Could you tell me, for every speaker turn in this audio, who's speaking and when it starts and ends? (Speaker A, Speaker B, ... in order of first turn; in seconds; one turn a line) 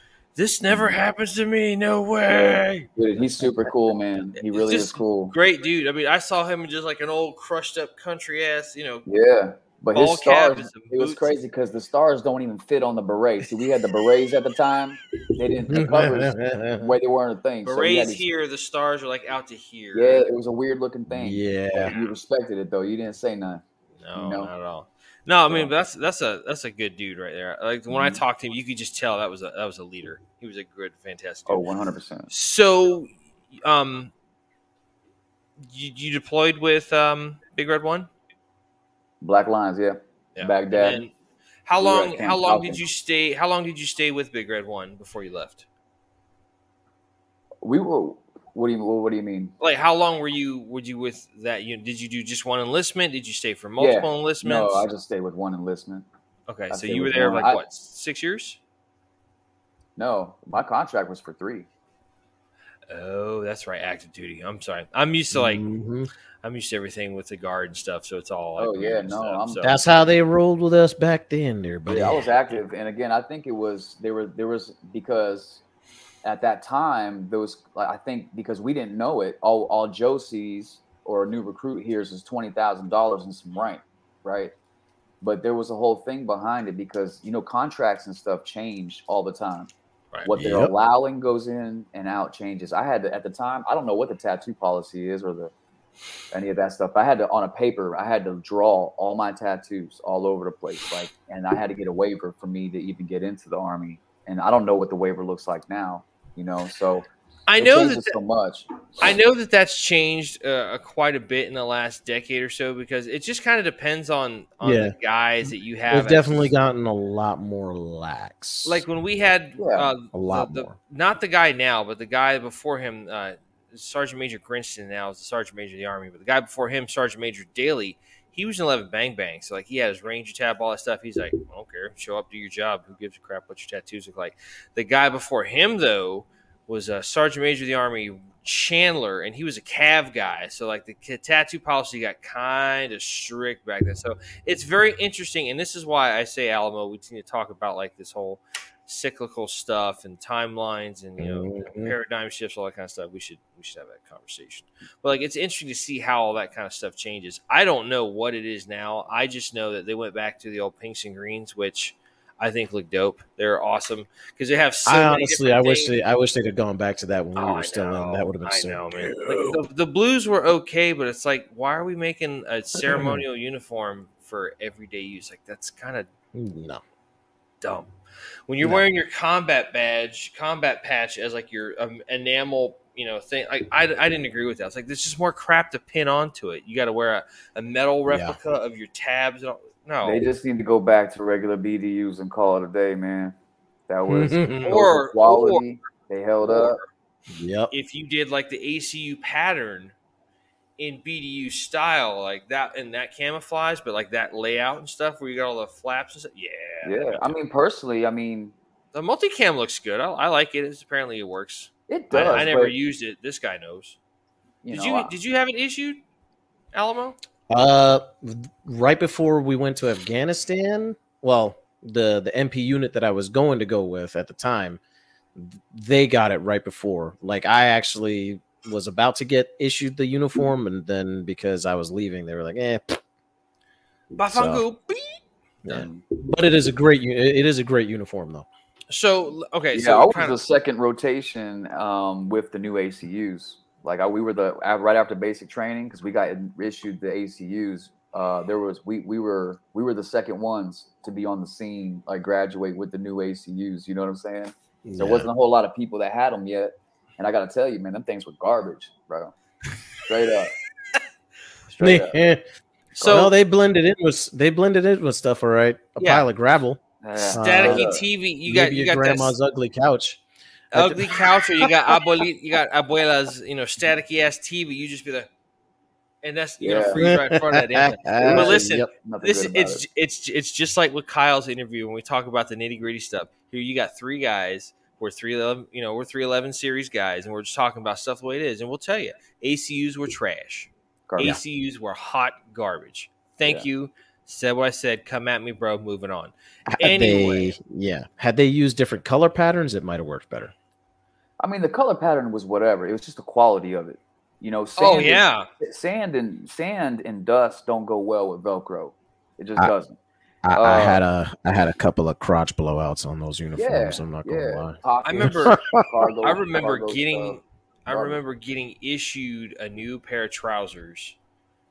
Speaker A: 0.4-2.9
Speaker B: 2.3-5.3
Speaker A: 4.4-9.1
Speaker B: 9.1-18.2
Speaker A: 9.9-11.4
Speaker C: 15.7-16.9
Speaker A: 17.6-20.2
Speaker B: 19.9-23.6
Speaker C: 21.1-21.9
Speaker A: 24.0-31.6
Speaker B: 24.1-24.5
Speaker B: 27.9-28.2
Speaker B: 31.5-32.3
Speaker A: 32.3-34.1
Speaker A: 35.6-38.1
Speaker B: 39.2-41.0
Speaker A: 40.4-41.1
Speaker A: 41.6-45.7
Speaker B: 41.8-42.8
Speaker B: 47.6-49.5
Speaker A: 49.6-54.9
Speaker B: 53.8-56.0
Speaker A: 56.5-58.6
Speaker B: 56.7-57.6
Speaker B: 60.0-61.7
Speaker A: 62.9-65.6
Speaker C: 65.3-66.1
Speaker A: 66.4-69.8
Speaker B: 68.6-70.1
Speaker C: 69.6-72.2
Speaker B: 71.9-75.6
Speaker B: 76.2-84.5
Speaker B: 85.2-89.7
Speaker B: 90.2-95.5
Speaker C: 90.4-90.7
Speaker B: 96.3-109.1
Speaker A: 107.5-108.2
Speaker A: 109.0-116.5
Speaker C: 114.6-114.9
Speaker C: 115.9-118.8
Speaker A: 118.7-165.9
Speaker B: 119.6-119.9
Speaker C: 120.1-120.8
Speaker C: 151.2-151.9
Speaker C: 164.9-169.6
Speaker A: 167.4-176.1
Speaker C: 172.8-173.2
Speaker C: 176.3-176.8
Speaker A: 177.6-177.9
Speaker A: 178.5-190.2
Speaker C: 188.1-188.4
Speaker B: 190.0-193.3
Speaker B: 193.9-196.8
Speaker C: 194.1-194.7
Speaker A: 194.6-195.6
Speaker A: 196.4-196.8
Speaker C: 197.3-197.7
Speaker A: 197.7-199.9
Speaker A: 200.8-207.4
Speaker B: 206.8-208.6
Speaker A: 208.9-214.0
Speaker B: 211.9-212.8
Speaker C: 212.2-212.5
Speaker B: 214.6-215.2
Speaker A: 214.7-216.0
Speaker A: 216.7-217.2
Speaker C: 217.5-224.8
Speaker C: 225.3-233.0
Speaker A: 234.1-235.2
Speaker C: 234.3-234.6
Speaker C: 235.7-238.5
Speaker B: 235.7-236.0
Speaker A: 238.9-240.4
Speaker B: 239.7-259.3
Speaker C: 254.8-255.3
Speaker B: 260.1-260.6
Speaker B: 261.7-262.2
Speaker C: 261.8-262.4
Speaker A: 263.0-263.3
Speaker C: 263.1-267.9
Speaker A: 266.0-266.3
Speaker B: 267.0-268.1
Speaker A: 267.4-269.3
Speaker C: 268.5-270.2
Speaker A: 270.7-275.3
Speaker C: 270.7-271.7
Speaker A: 276.2-297.5
Speaker B: 276.6-277.0
Speaker C: 277.0-278.9
Speaker B: 278.1-279.8
Speaker B: 291.1-291.4
Speaker C: 296.7-300.5
Speaker B: 301.4-310.0
Speaker A: 304.8-305.5
Speaker C: 310.4-315.8
Speaker B: 310.6-311.0
Speaker B: 313.6-318.2
Speaker A: 315.0-315.6
Speaker A: 316.2-321.2